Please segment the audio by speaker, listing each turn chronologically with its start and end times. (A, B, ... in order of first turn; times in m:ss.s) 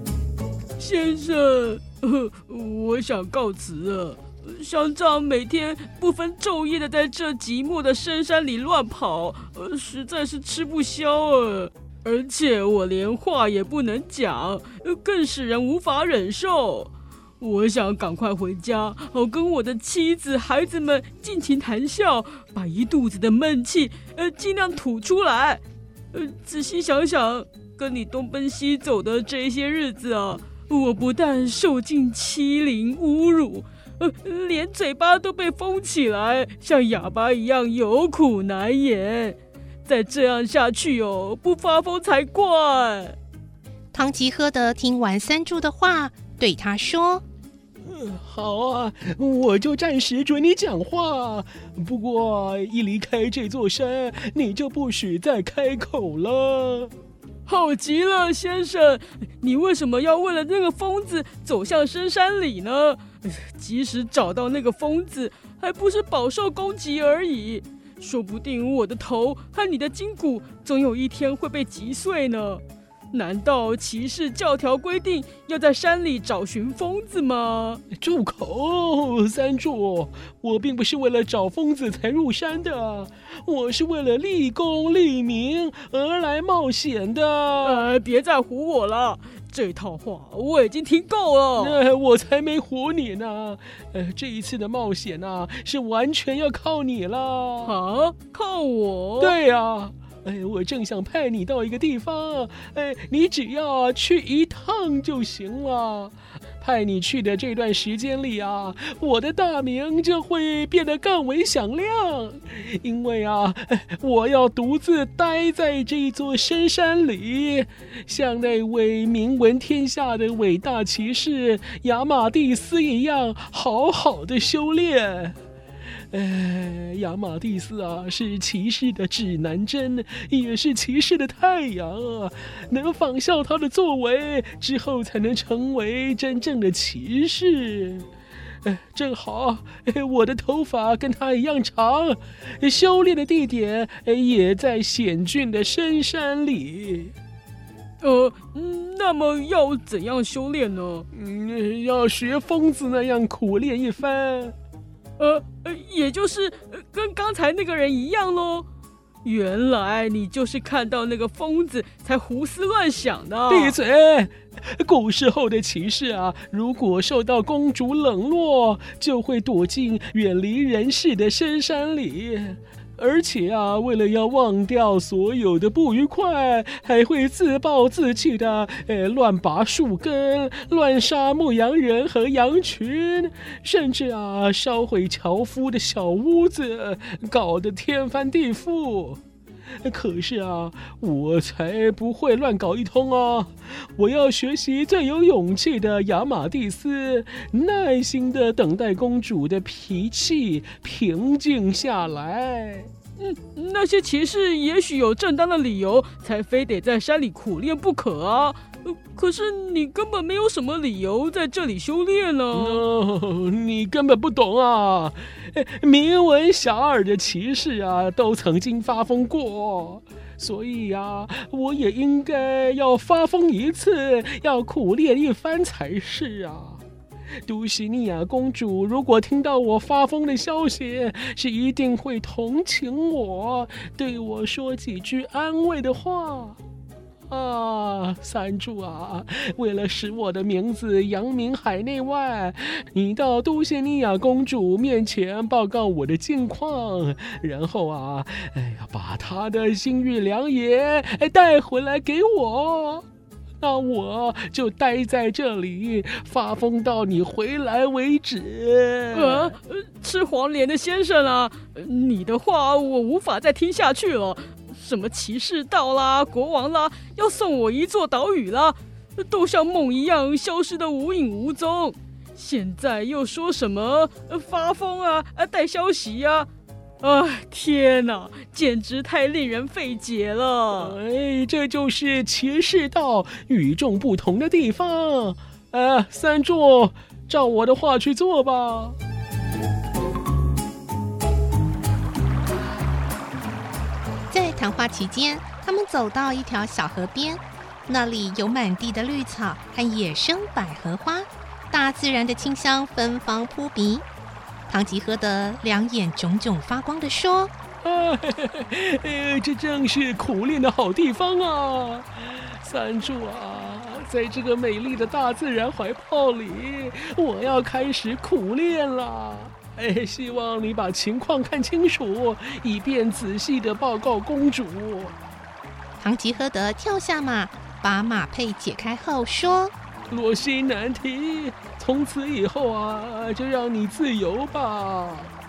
0:00.8-0:25.6 A
0:26.1-0:43.2 A
0:43.9-0:47.2 B
0:47.8-0:56.9 C
0:57.5-1:17.8 A
1:17.9-1:27.8 C
1:27.6-1:31.8 A
1:31.6-1:37.7 C
1:37.6-1:39.4 A
1:39.2-2:05.3 C
2:06.1-2:18.1 C
2:18.6-2:27.1 C
2:28.0-2:31.0 A
2:31.1-2:34.5 C
2:35.2-2:38.7 A
2:39.2-2:43.8 A
2:43.5-3:09.2 C
3:09.8-3:22.9 C
3:23.2-3:32.8 A
3:32.5-3:46.8 C
3:47.5-3:56.6 C
3:57.3-4:13.0 C
4:13.6-4:19.5 C
4:19.1-4:36.5 A
4:37.0-4:41.0 A
4:40.7-4:49.0 C
4:54.3-5:04.0 B
5:04.7-5:07.5 B
5:07.8-5:25.1 C
5:26.0-5:29.7 B
5:30.1-5:35.3 C